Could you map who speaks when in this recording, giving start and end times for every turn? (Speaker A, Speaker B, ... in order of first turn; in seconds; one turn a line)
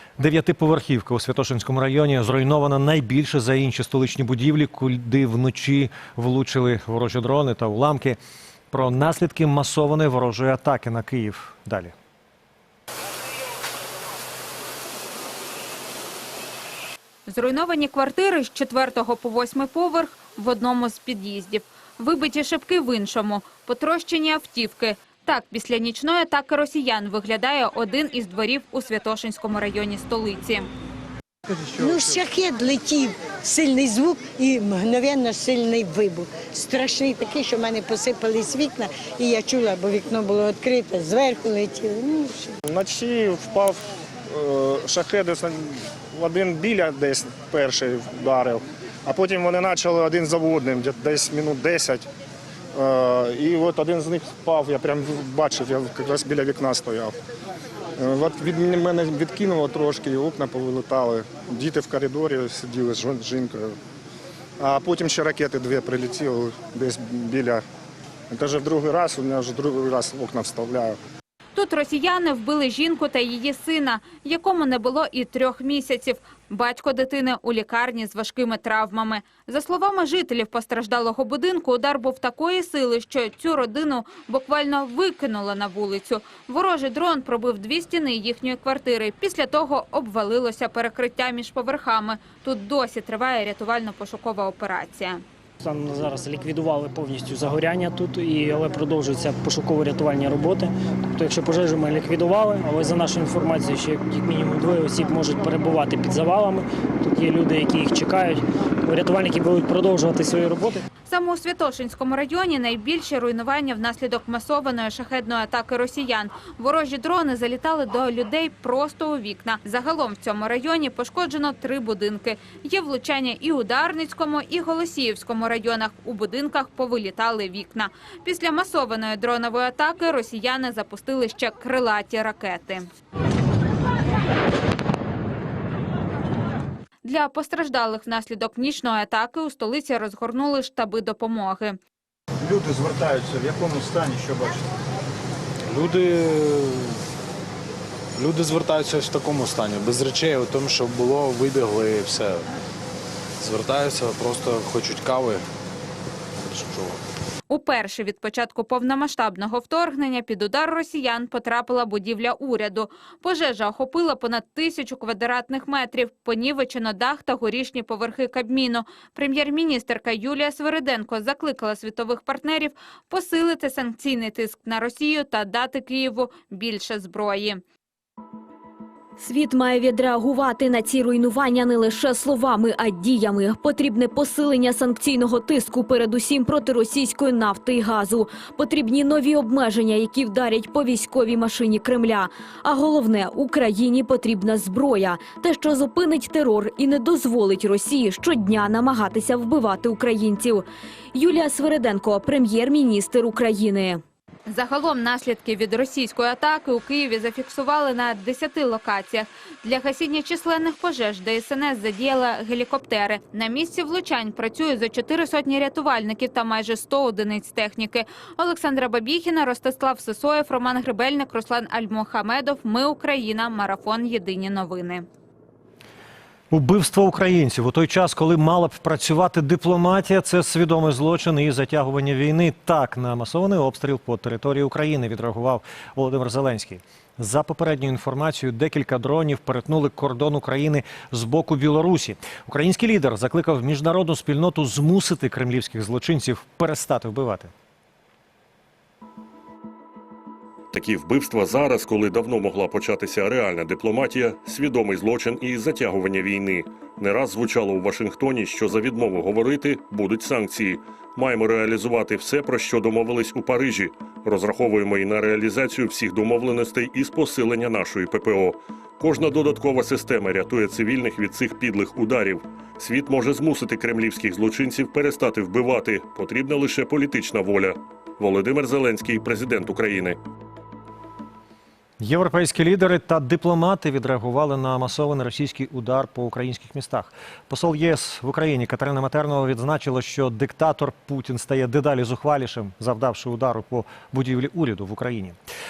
Speaker A: 0.2-8.2
Speaker A: 8.7-11.9
Speaker B: 17.3-30.7
Speaker C: 31.7-42.6
Speaker D: 42.7-52.1
Speaker D: 52.8-57.1
Speaker D: 58.0-63.8
Speaker D: 64.6-67.6
Speaker D: 68.3-71.0
Speaker B: 71.5-95.2
Speaker E: 95.6-110.8
Speaker B: 111.1-132.9
Speaker B: 137.0-141.8
Speaker F: 142.5-144.6
Speaker G: 145.7-146.9
Speaker G: 148.2-152.5
Speaker G: 153.4-155.4
Speaker G: 156.4-157.0
Speaker B: 157.5-177.6
Speaker H: 179.2-204.0
Speaker B: 204.5-225.1
Speaker A: 226.5-247.5
Speaker I: 250.7-280.2
Speaker A: 282.0-295.4